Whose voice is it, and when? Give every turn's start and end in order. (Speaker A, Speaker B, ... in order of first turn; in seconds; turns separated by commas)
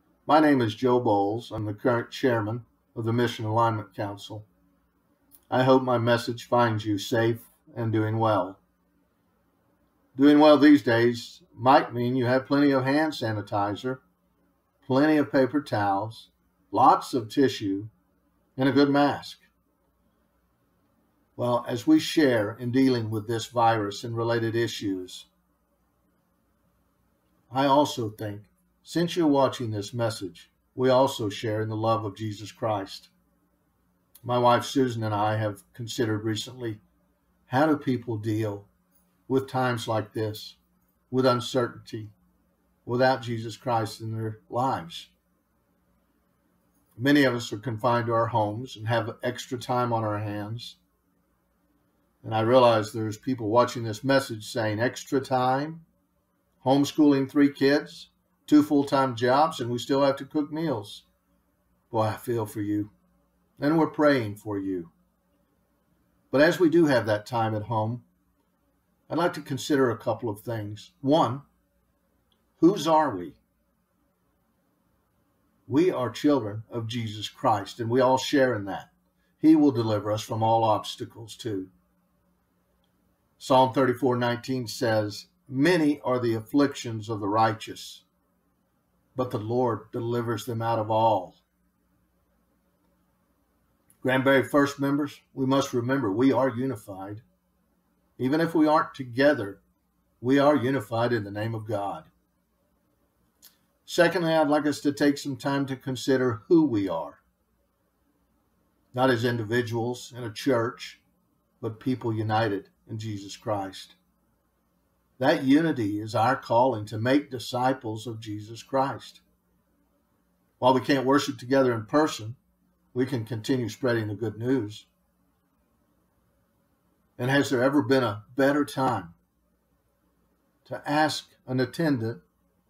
Speaker A: 0.3-4.5, Speaker A: 5.5-8.6, Speaker A: 10.1-14.0, Speaker A: 14.8-17.9, Speaker A: 18.6-19.5, Speaker A: 21.4-25.3, Speaker A: 27.5-33.1, Speaker A: 34.2-36.8, Speaker A: 37.5-38.7, Speaker A: 39.3-40.6, Speaker A: 41.1-42.1, Speaker A: 42.9-45.1, Speaker A: 47.0-50.8, Speaker A: 52.2-55.8, Speaker A: 56.6-61.0, Speaker A: 61.9-62.9, Speaker A: 63.6-64.9, Speaker A: 66.3-68.0, Speaker A: 69.1-71.4, Speaker A: 72.6-73.4, Speaker A: 75.7-81.7, Speaker A: 83.4-88.0, Speaker A: 89.2-91.4, Speaker A: 94.0-97.2, Speaker A: 98.2-99.6, Speaker A: 100.2-102.1, Speaker A: 103.9-107.2, Speaker A: 108.9-111.0, Speaker A: 111.6-114.0, Speaker A: 115.2-119.2, Speaker A: 120.6-122.4, Speaker A: 122.9-124.9, Speaker A: 127.2-129.2, Speaker A: 130.7-132.2